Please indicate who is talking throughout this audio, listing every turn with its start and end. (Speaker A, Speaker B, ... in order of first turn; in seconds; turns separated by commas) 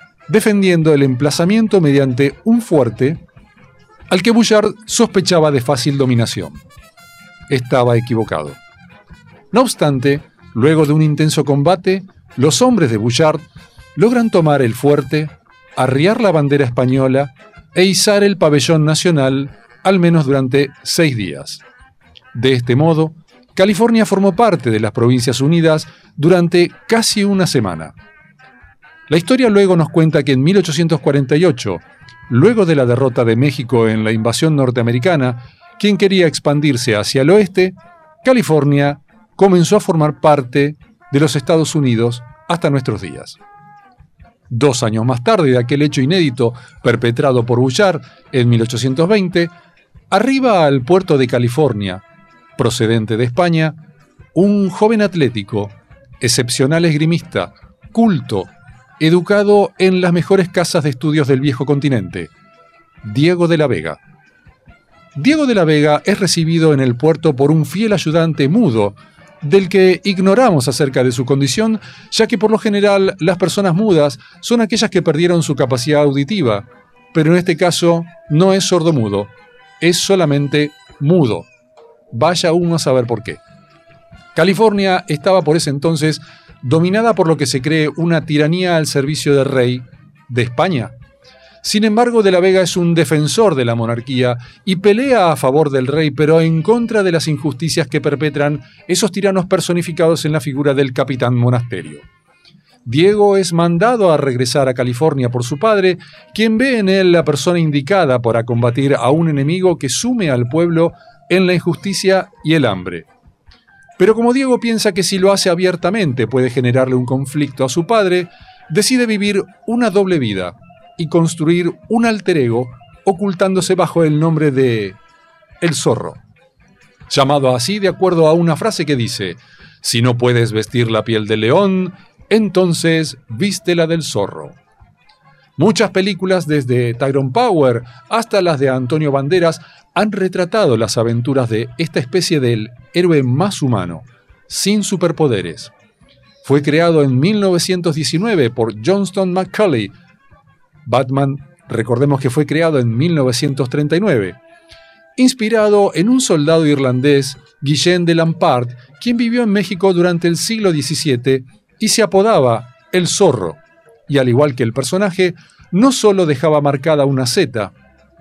Speaker A: 0.3-3.2, Speaker A: 4.1-6.6, Speaker A: 7.5-8.6, Speaker A: 9.5-13.4, Speaker A: 13.9-21.6, Speaker A: 22.3-27.9, Speaker A: 29.1-43.4, Speaker A: 44.5-49.5, Speaker A: 50.1-52.0, Speaker A: 52.6-53.8, Speaker A: 54.3-62.3, Speaker A: 63.0-64.0, Speaker A: 65.2-81.5, Speaker A: 82.1-83.4, Speaker A: 84.3-90.9, Speaker A: 91.6-102.0, Speaker A: 102.8-113.1, Speaker A: 114.0-125.0, Speaker A: 125.6-126.2, Speaker A: 127.1-134.6, Speaker A: 135.6-145.7, Speaker A: 146.4-149.9, Speaker A: 150.8-154.4, Speaker A: 155.2-167.7